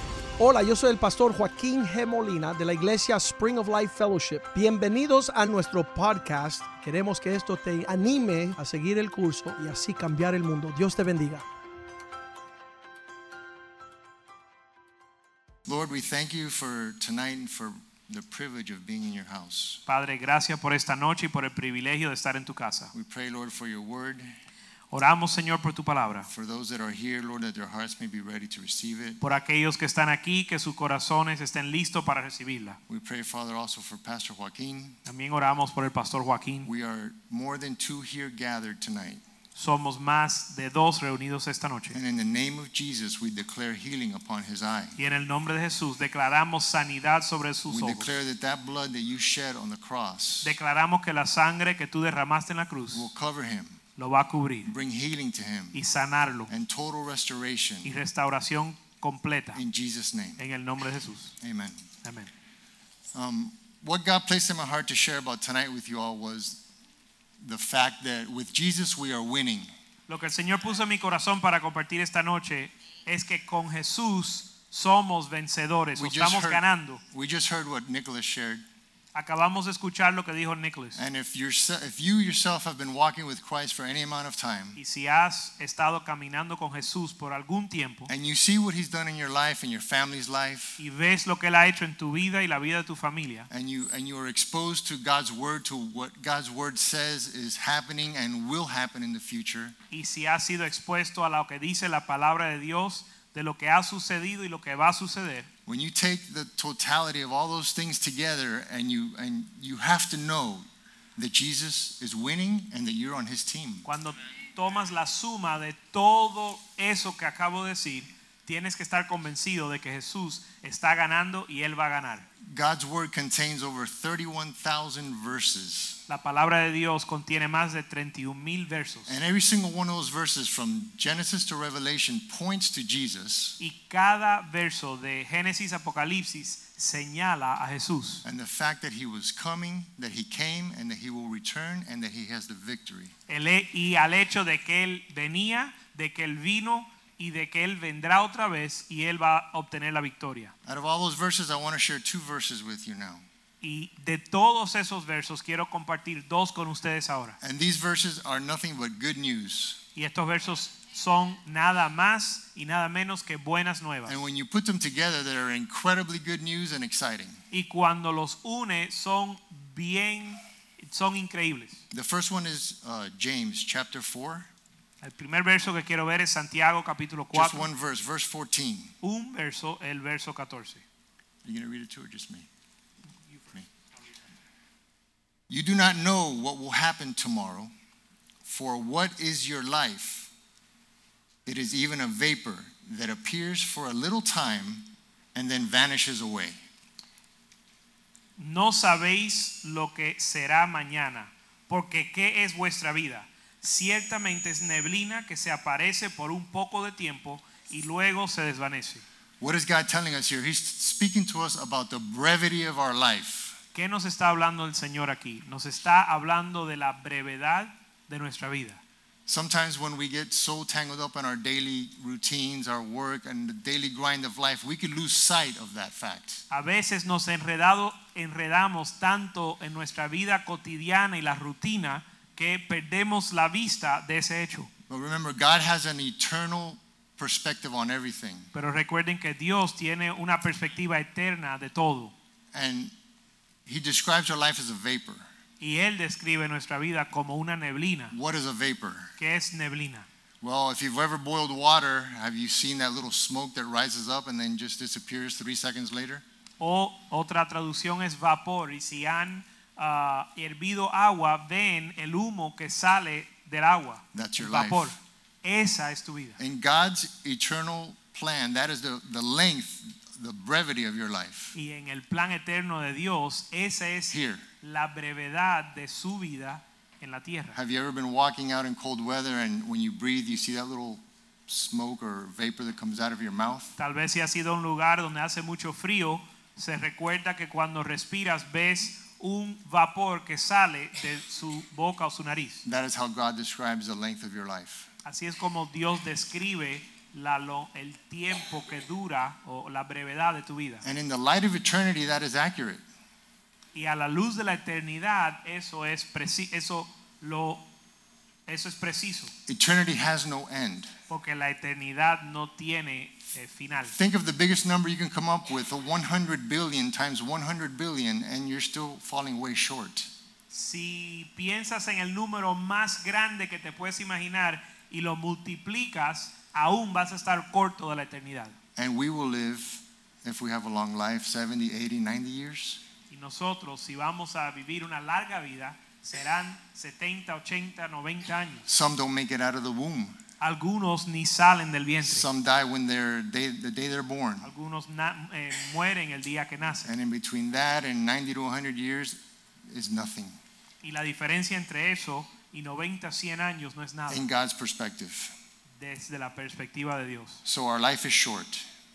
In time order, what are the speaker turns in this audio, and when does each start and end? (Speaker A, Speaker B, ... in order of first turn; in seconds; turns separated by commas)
Speaker A: 0.4-11.4, Speaker B: 15.7-19.8, Speaker C: 19.9-22.9, Speaker B: 22.9-24.3, Speaker C: 24.9-26.3, Speaker B: 26.3-29.2, Speaker C: 29.2-32.8, Speaker B: 32.9-35.0, Speaker C: 35.0-36.7, Speaker B: 36.6-39.2, Speaker C: 39.5-42.0, Speaker B: 41.9-45.0, Speaker C: 45.0-48.1, Speaker B: 47.7-50.6, Speaker C: 50.4-53.1, Speaker B: 52.9-53.8, Speaker C: 54.0-54.7, Speaker B: 54.6-55.8, Speaker C: 55.7-56.5, Speaker B: 56.5-57.9, Speaker C: 57.8-59.6, Speaker B: 59.5-60.4, Speaker C: 60.4-61.3, Speaker B: 61.4-61.8, Speaker C: 62.0-62.3, Speaker B: 63.1-66.6, Speaker B: 67.4-69.7, Speaker C: 70.1-77.0, Speaker B: 76.0-78.6, Speaker C: 79.1-81.0, Speaker B: 81.0-84.8, Speaker C: 84.8-88.1, Speaker B: 88.1-90.8, Speaker C: 90.8-93.5, Speaker B: 93.5-99.7, Speaker C: 99.9-105.5, Speaker B: 105.7-113.8, Speaker C: 113.8-122.2, Speaker B: 122.4-126.0, Speaker C: 126.1-129.2, Speaker B: 129.1-133.6, Speaker C: 133.6-138.2, Speaker B: 138.2-143.1, Speaker C: 143.3-150.5, Speaker B: 150.6-153.2, Speaker C: 153.6-157.4, Speaker B: 157.4-159.8, Speaker C: 159.9-164.2, Speaker B: 164.1-167.4, Speaker C: 167.5-171.8, Speaker B: 171.9-174.5, Speaker C: 175.0-177.7, Speaker B: 177.3-178.9, Speaker C: 179.0-180.8, Speaker B: 181.4-182.5, Speaker B: 185.5-187.7, Speaker B: 188.4-190.3, Speaker B: 191.4-196.6, Speaker C: 198.4-209.0, Speaker B: 209.4-213.6, Speaker C: 213.7-218.8, Speaker B: 219.2-226.4, Speaker C: 226.5-234.7, Speaker B: 234.9-238.5, Speaker C: 238.5-242.1, Speaker B: 242.5-242.9, Speaker B: 243.7-245.3, Speaker C: 245.6-248.1, Speaker B: 248.1-249.1, Speaker C: 249.2-250.1, Speaker B: 250.4-256.2, Speaker C: 256.6-266.4, Speaker B: 264.1-264.9, Speaker B: 266.4-271.5, Speaker C: 271.5-277.6, Speaker B: 274.1-274.4, Speaker B: 277.5-283.7, Speaker C: 283.8-292.6, Speaker B: 292.6-294.9, Speaker C: 295.0-300.8, Speaker B: 300.8-302.8, Speaker C: 303.7-307.6, Speaker C: 308.5-309.3, Speaker B: 309.5-310.9, Speaker C: 311.1-313.9, Speaker B: 313.9-320.1, Speaker C: 320.5-328.6, Speaker B: 328.8-332.8, Speaker C: 333.1-338.6, Speaker B: 338.7-340.2, Speaker C: 340.4-342.2, Speaker B: 342.0-344.5, Speaker C: 344.4-346.9, Speaker B: 346.8-350.4, Speaker C: 350.8-354.3, Speaker B: 354.1-355.3, Speaker C: 355.8-357.4, Speaker B: 357.4-358.7